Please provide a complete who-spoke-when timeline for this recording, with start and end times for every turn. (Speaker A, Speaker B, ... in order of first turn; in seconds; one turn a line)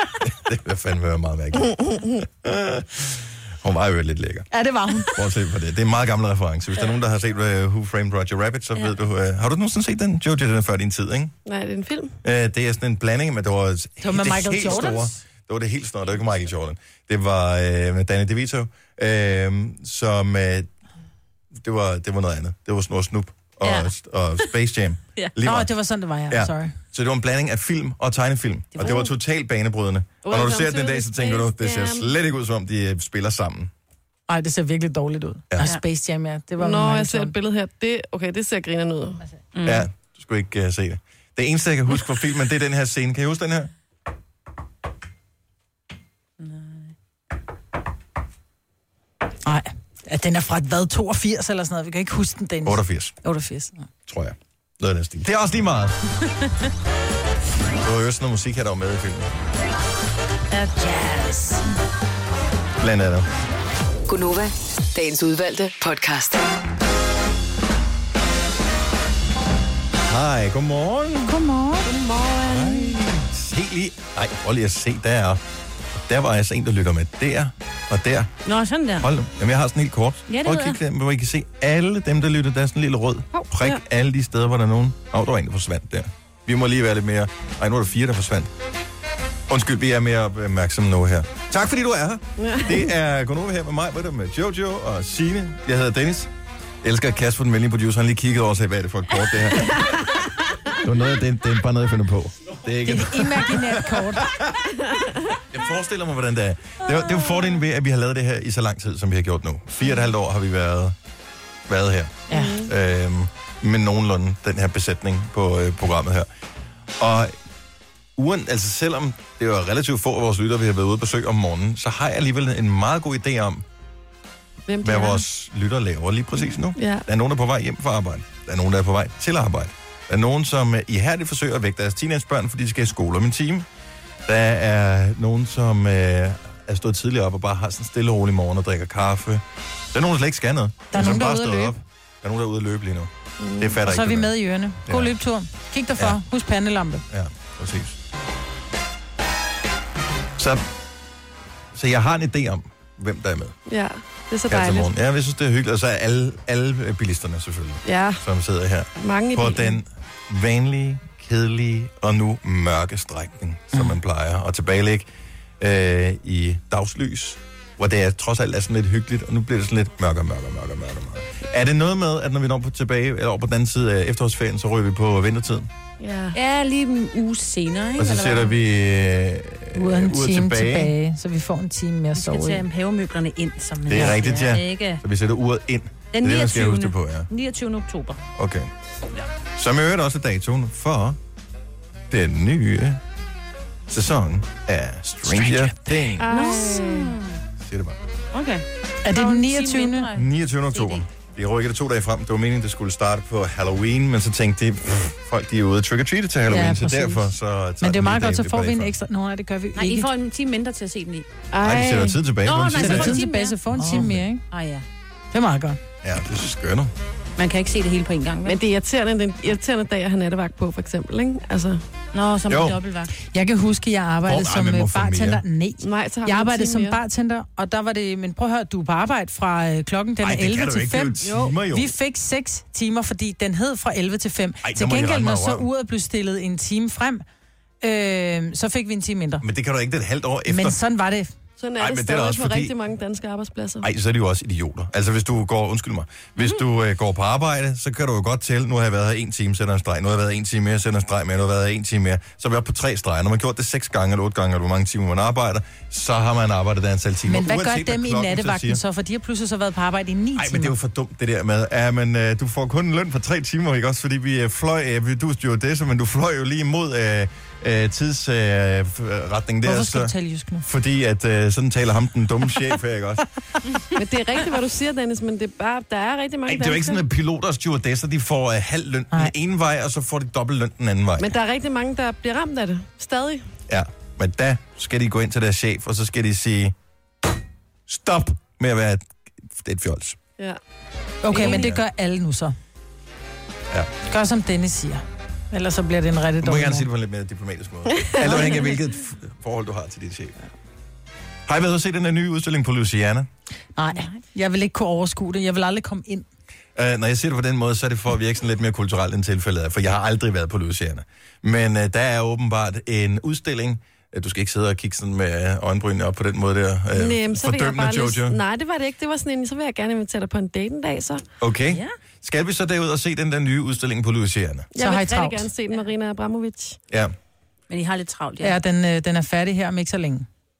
Speaker A: 0.2-4.5
Speaker B: 4.5-5.2
Speaker A: 5.0-11.3
Speaker C: 11.4-12.2
Speaker A: 12.2-20.7
Speaker B: 14.0-15.1
Speaker A: 21.5-25.7
Speaker D: 23.6-23.9
Speaker B: 25.4-26.8
Speaker A: 26.3-33.7
Speaker C: 28.8-29.1
Speaker C: 30.2-32.1
Speaker B: 34.3-37.3
Speaker C: 36.6-39.2
Speaker D: 39.5-39.9
Speaker A: 39.6-43.7
Speaker D: 46.4-46.9
Speaker B: 49.4-53.9
Speaker A: 52.6-53.1
Speaker A: 54.1-56.0
Speaker A: 57.8-59.3
Speaker B: 60.5-61.6
Speaker A: 62.8-63.3
Speaker E: 64.1-66.4
Speaker A: 70.0-71.3
Speaker B: 71.2-71.9
Speaker C: 71.8-72.9
Speaker A: 72.4-75.4
Speaker A: 76.0-78.3
Speaker D: 78.4-79.1
Speaker A: 79.0-88.5
Speaker D: 80.3-80.8
Speaker C: 83.3-83.8
Speaker A: 89.5-96.3
Speaker C: 92.4-92.9
Speaker A: 96.8-100.0
Speaker A: 100.8-104.7
Speaker B: 102.8-104.3
Speaker A: 105.5-110.9
Speaker A: 111.7-116.3
Speaker B: 112.3-112.6
Speaker C: 112.3-112.7
Speaker A: 117.0-117.3
Speaker A: 118.2-123.6
Speaker C: 124.7-125.2
Speaker A: 124.8-133.7
Speaker C: 126.7-127.0
Speaker A: 134.2-144.3
Speaker B: 140.9-141.8
Speaker C: 143.4-143.8
Speaker B: 143.8-147.0
Speaker A: 144.8-145.1
Speaker A: 147.1-148.0
Speaker A: 150.4-150.7
Speaker A: 151.7-153.5
Speaker C: 153.7-154.9
Speaker A: 154.5-165.1
Speaker C: 157.8-158.2
Speaker C: 159.0-159.8
Speaker A: 165.6-175.7
Speaker C: 176.0-176.3
Speaker D: 176.3-178.5
Speaker A: 178.0-180.9
Speaker B: 179.7-182.6
Speaker D: 182.1-185.0
Speaker A: 183.9-187.3
Speaker D: 186.1-188.2
Speaker A: 188.3-188.7
Speaker A: 189.6-191.2
Speaker A: 192.1-193.0
Speaker A: 193.9-196.3
Speaker C: 196.2-197.1
Speaker D: 196.2-197.4
Speaker A: 197.6-198.0
Speaker D: 198.3-201.0
Speaker B: 199.0-200.1
Speaker A: 200.1-208.9
Speaker B: 206.5-210.1
Speaker D: 209.8-211.2
Speaker C: 211.5-212.2
Speaker A: 211.6-213.2
Speaker D: 212.4-214.8
Speaker B: 212.7-214.4
Speaker A: 213.8-214.2
Speaker B: 215.3-215.8
Speaker A: 216.0-216.9
Speaker D: 217.4-218.6
Speaker C: 218.4-221.8
Speaker D: 222.1-223.1
Speaker A: 222.5-222.8
Speaker B: 223.3-237.2
Speaker A: 224.2-225.4
Speaker C: 225.8-227.0
Speaker A: 230.2-231.9
Speaker C: 231.2-231.6
Speaker A: 234.6-235.7
Speaker B: 237.8-239.4
Speaker A: 239.4-240.8
Speaker B: 240.5-241.3
Speaker C: 241.6-243.9
Speaker A: 241.8-242.7
Speaker A: 243.8-258.8
Speaker B: 257.3-260.8
Speaker A: 260.4-273.3
Speaker B: 269.6-270.6
Speaker C: 273.9-277.0
Speaker A: 276.4-281.4
Speaker C: 281.2-283.5
Speaker A: 283.7-286.7
Speaker A: 287.9-290.2
Speaker B: 291.2-292.6
Speaker C: 291.3-291.7
Speaker A: 291.4-291.8
Speaker B: 294.1-296.9
Speaker A: 296.4-300.4
Speaker C: 298.0-298.7
Speaker A: 301.4-303.3
Speaker B: 303.8-306.2
Speaker A: 306.8-318.4
Speaker C: 316.9-321.2
Speaker A: 321.4-324.7
Speaker C: 324.7-326.8
Speaker B: 324.8-325.5
Speaker D: 327.7-328.6
Speaker B: 328.4-330.3